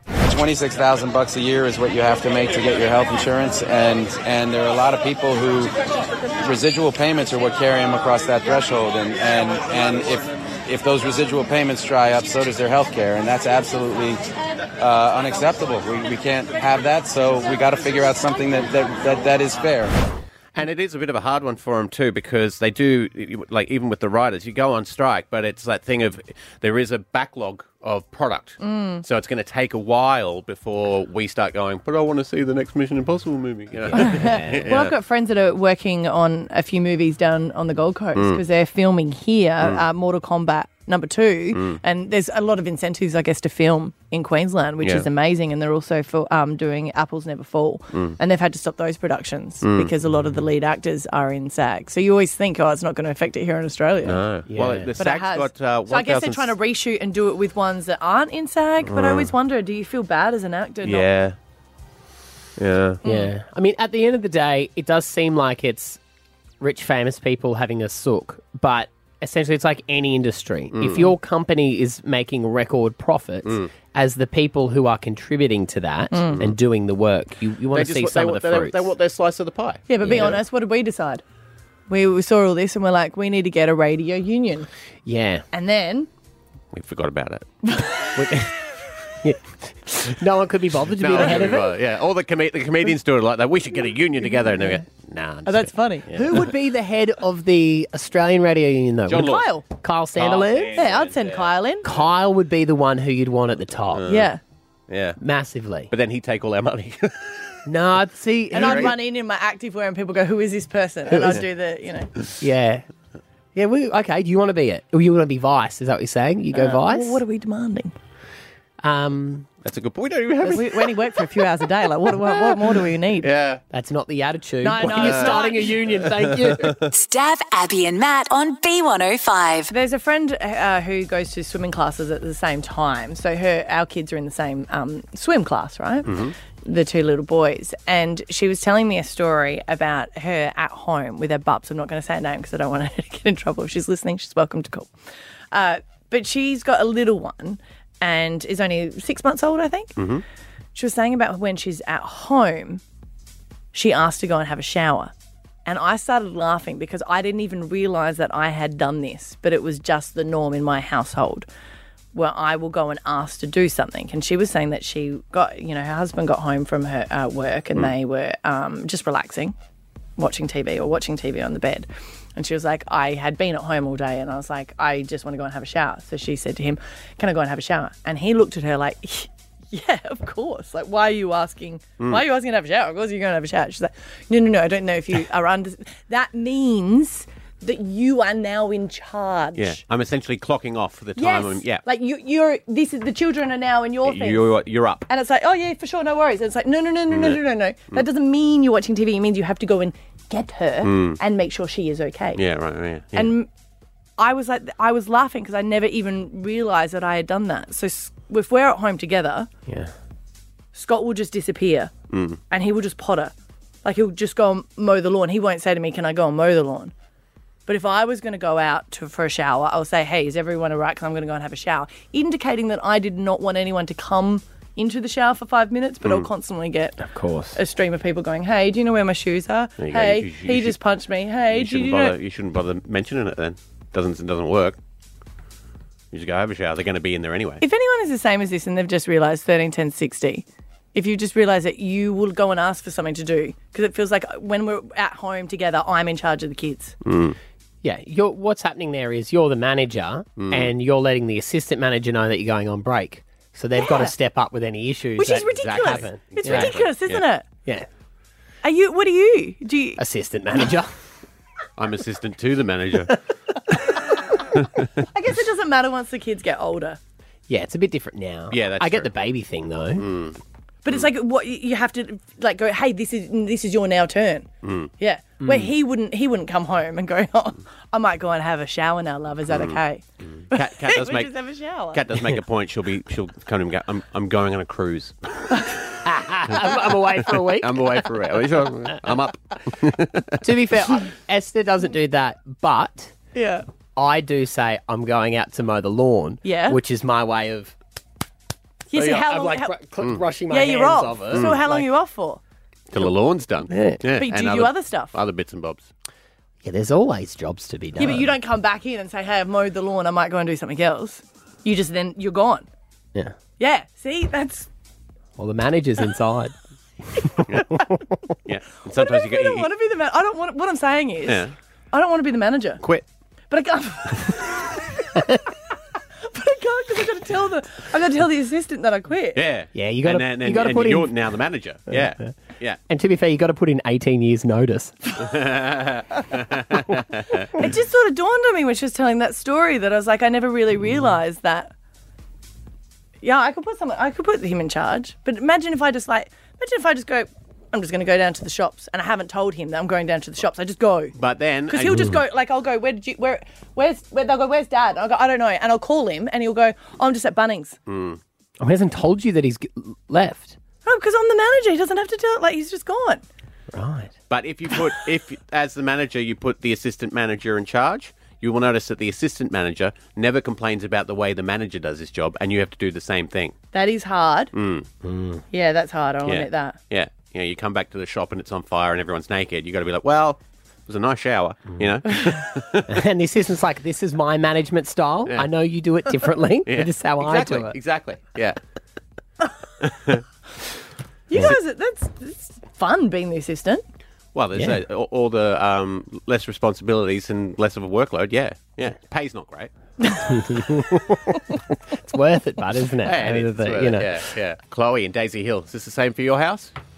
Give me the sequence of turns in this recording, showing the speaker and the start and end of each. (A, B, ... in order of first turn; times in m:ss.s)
0:00.3-0:05.7 A
0:06.4-0:14.2 A
0:14.8-0:20.0 A
0:20.6-0:34.9 B
0:28.6-0:29.0 C
0:33.9-0:54.2 C
0:34.1-0:34.7 D
0:49.6-0:49.9 B
0:54.0-0:56.6 B
0:54.5-0:54.9 D
0:55.0-1:01.1 C
0:58.8-0:59.3 B
1:00.8-1:01.4 B
1:02.6-1:03.0 B
1:03.0-1:03.3 C
1:03.0-1:06.0 D
1:06.6-1:18.9 D
1:10.7-1:11.1 B
1:16.1-1:16.4 C
1:17.7-1:20.4 B
1:19.9-1:21.2 C
1:20.0-1:20.4 D
1:21.9-1:24.7 C
1:25.1-1:25.4 D
1:25.5-1:26.1 C
1:26.7-1:27.5 B
1:27.7-1:28.2 C
1:28.2-1:28.6 D
1:29.2-1:31.7 D
1:31.0-1:35.6 B
1:31.2-1:31.6 C
1:34.2-1:34.8 C
1:35.4-1:36.2 C
1:36.1-1:40.8 D
1:39.1-1:39.4 B
1:39.1-1:39.7 C
1:40.2-1:42.0 B
1:40.7-1:41.9 C
1:41.8-1:44.1 D
1:44.0-1:44.3 B
1:44.0-1:44.4 C
1:44.9-1:45.2 B
1:45.2-1:45.9 D
1:45.9-1:47.3 B
1:47.7-1:49.0 D
1:48.5-1:52.1 C
1:48.5-1:48.9 B
1:51.1-1:51.4 D
1:52.4-1:52.9 D
1:53.6-1:57.2 D
1:56.6-1:57.9 C
1:58.8-1:59.6 D
1:59.6-2:01.0 B
2:00.4-2:03.3 C
2:03.2-2:03.6 B
2:03.7-2:06.8 D
2:04.6-2:05.8 C
2:04.8-2:06.8 B
2:06.9-2:09.7 E
2:09.7-2:24.9 C
2:16.1-2:16.3 B
2:25.5-2:30.0 C
2:30.0-2:30.2 B
2:30.8-2:32.8 C
2:33.7-2:35.1 C
2:35.7-2:41.5 C
2:42.1-2:49.6 C
2:50.2-3:09.8 C
3:09.6-3:11.8 B
3:11.2-3:22.4 C
3:14.0-3:15.0 B
3:17.1-3:17.4 B
3:20.8-3:21.2 B
3:22.4-3:23.3 B
3:23.1-3:23.5 C
3:24.2-3:29.5 C
3:29.7-3:29.9 D
3:30.7-3:31.9 C
3:32.1-3:32.4 B
3:32.5-3:33.3 C
3:33.8-3:36.9 C
3:37.7-3:52.2 C
3:47.0-3:47.6 D
3:49.8-3:50.8 B
3:51.5-3:54.8 B
3:56.1-3:57.6 B
3:57.6-4:07.0 C
4:07.0-4:07.4 B
4:07.8-4:16.8 D
4:10.4-4:10.7 B
4:13.8-4:14.1 C
4:15.2-4:17.5 C
4:15.5-4:17.2 B
4:18.6-4:20.0 C
4:20.0-4:21.0 D
4:21.8-4:23.1 B
4:25.1-4:27.0 C
4:27.5-4:30.1 D
4:28.5-4:29.1 B
4:30.0-4:30.4 B
4:30.8-4:42.0 C
4:34.6-4:34.9 B
4:35.4-4:35.7 D
4:39.5-4:41.3 B
4:41.9-4:45.3 B
4:46.0-4:48.1 D
4:47.5-4:50.4 B
4:50.4-4:53.1 D
4:53.3-4:53.6 C
4:54.0-4:57.8 D
4:56.4-4:56.8 C
4:58.9-4:59.8 C
4:58.9-5:01.9 D
5:00.4-5:02.4 C
5:02.9-5:05.9 B
5:03.7-5:04.1 D
5:04.1-5:05.2 C
5:06.6-5:08.3 D
5:08.0-5:12.7 C
5:13.6-5:14.7 C
5:15.4-5:16.5 D
5:17.2-5:18.0 D
5:18.5-5:19.7 B
5:18.9-5:22.8 C
5:21.3-5:21.5 B
5:23.5-5:24.6 C
5:26.3-5:29.4 C
5:29.4-5:32.8 B
5:29.7-5:31.2 D
5:31.9-5:32.4 D
5:32.9-5:35.0 D
5:35.2-5:37.5 B
5:37.6-5:41.7 C
5:43.2-5:51.2 C
5:51.2-5:52.0 B
5:51.7-5:57.8 C
5:51.9-5:52.2 D
5:57.9-5:58.2 B
5:58.6-6:00.6 D
6:00.8-6:03.2 C
6:03.7-6:04.2 D
6:04.3-6:13.6 B
6:13.7-6:14.5 C
6:14.5-6:14.9 B
6:15.0-6:15.4 D
6:15.5-6:16.8 C
6:16.2-6:23.0 B
6:22.9-6:27.8 D
6:26.7-6:28.6 B
6:29.8-6:30.2 B
6:31.3-6:33.8 C
6:34.3-6:39.7 B
6:40.2-6:41.4 D
6:41.9-6:44.3 D
6:43.0-6:46.7 B